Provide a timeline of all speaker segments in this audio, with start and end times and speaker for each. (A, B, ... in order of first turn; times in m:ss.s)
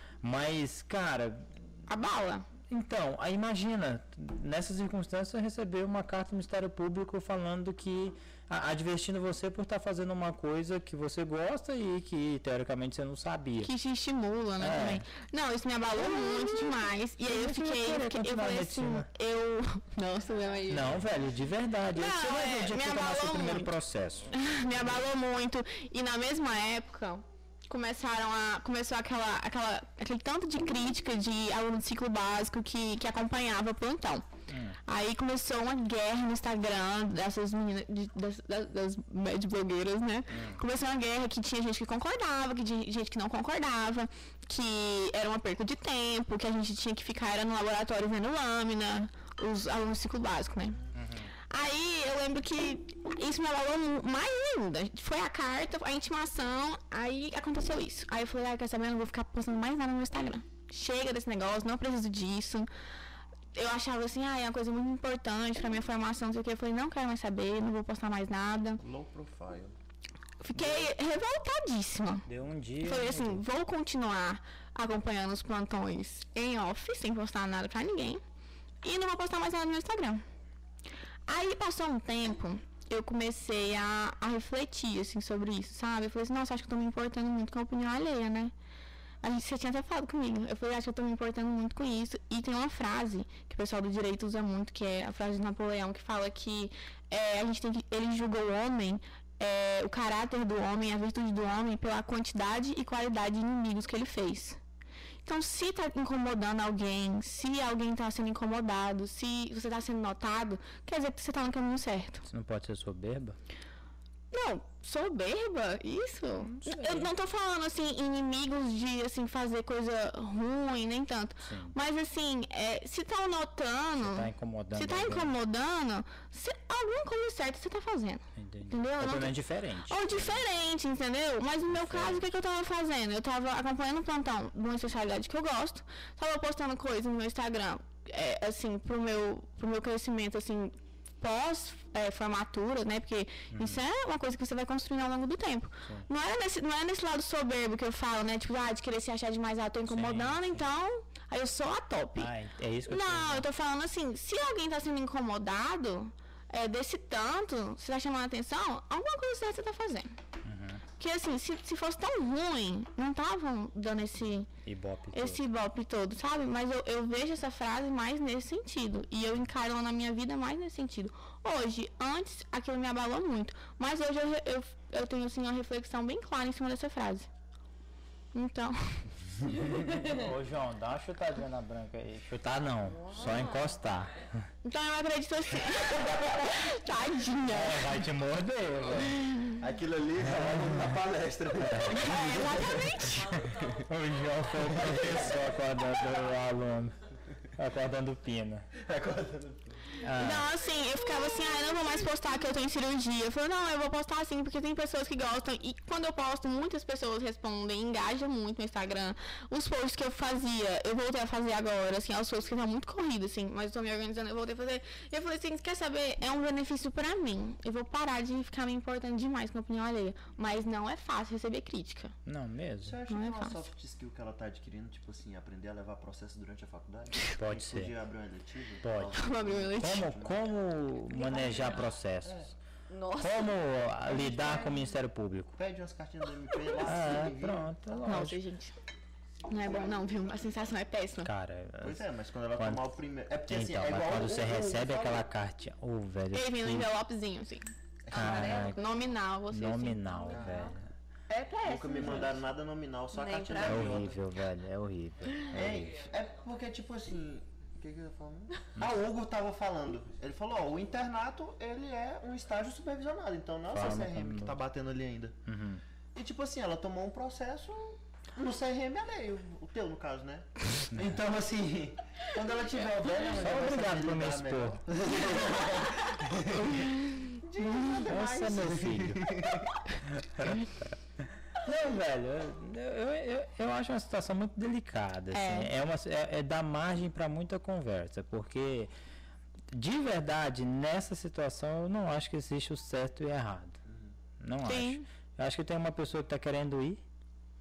0:00.2-0:01.6 A
0:01.9-0:02.5 B
0:02.7-0:13.7 A
0:13.6-0:21.0 B
0:14.6-0:15.1 A
0:16.0-0:19.1 A
0:20.7-0:24.9 A
0:21.9-0:23.7 B
0:24.3-0:34.2 B
0:34.5-0:34.8 A
0:34.9-0:50.8 B
0:40.3-0:40.6 A
0:50.9-0:51.3 A
0:51.5-1:02.7 B
1:03.5-1:08.8 B
1:08.8-1:09.7 C
1:10.4-1:12.3 B
1:10.5-1:10.9 A
1:12.3-1:13.4 A
1:12.8-1:18.2 B
1:18.8-1:20.2 B
1:21.3-1:28.5 B
1:29.2-1:44.6 B
1:45.2-1:52.2 B
1:52.3-1:53.4 A
1:54.3-2:32.3 B
1:56.4-1:57.1 A
2:01.4-2:01.8 A
2:04.0-2:05.3 A
2:08.4-2:10.5 A
2:11.7-2:12.3 A
2:23.5-2:23.8 A
2:29.9-2:30.7 A
2:32.2-2:33.5 A
2:32.9-2:40.2 B
2:40.4-2:40.9 A
2:41.0-2:44.5 B
2:44.6-2:45.4 A
2:45.1-2:57.3 B
2:58.3-2:59.6 B
2:59.6-3:04.4 A
3:03.0-3:03.7 D
3:04.6-3:08.0 B
3:06.0-3:06.4 A
3:07.5-3:09.2 A
3:09.1-3:09.6 B
3:09.6-3:13.6 C
3:10.2-3:11.0 A
3:11.6-3:12.1 A
3:11.9-3:13.4 B
3:13.1-3:16.9 A
3:14.5-3:15.5 C
3:17.6-3:18.7 A
3:18.8-3:20.0 C
3:20.0-3:20.5 A
3:20.2-3:42.2 B
3:42.3-3:43.0 A
3:42.8-3:50.5 C
3:43.1-3:43.6 B
3:47.4-3:48.0 A
3:48.8-3:52.5 A
3:49.1-3:50.1 B
3:52.2-3:52.5 C
3:52.9-3:54.8 D
3:53.2-3:55.6 A
3:55.6-3:58.1 C
3:56.8-3:58.4 A
3:58.0-3:58.7 B
3:59.5-4:01.3 B
4:01.2-4:02.0 A
4:01.8-4:05.2 C
4:02.6-4:02.9 A
4:03.5-4:06.9 A
4:06.3-4:07.7 B
4:08.1-4:08.7 C
4:08.1-4:09.0 D
4:08.1-4:08.8 A
4:08.4-4:10.3 B
4:09.5-4:10.8 A
4:10.1-4:10.8 D
4:10.2-4:10.6 C
4:11.3-4:12.3 D
4:11.6-4:14.2 C
4:12.0-4:12.4 A
4:13.1-4:14.1 D
4:13.6-4:16.0 A
4:15.5-4:25.4 C
4:23.7-4:24.6 A
4:25.5-4:25.8 A
4:26.2-4:39.8 C
4:30.9-4:31.2 A
4:33.2-4:34.8 A
4:36.5-4:37.7 B
4:38.0-4:39.4 A
4:40.1-4:40.9 A
4:41.5-4:48.9 A
4:45.3-4:45.7 B
4:49.7-4:53.8 A
4:53.9-4:54.1 C
4:54.4-4:57.0 A
4:54.6-4:55.0 B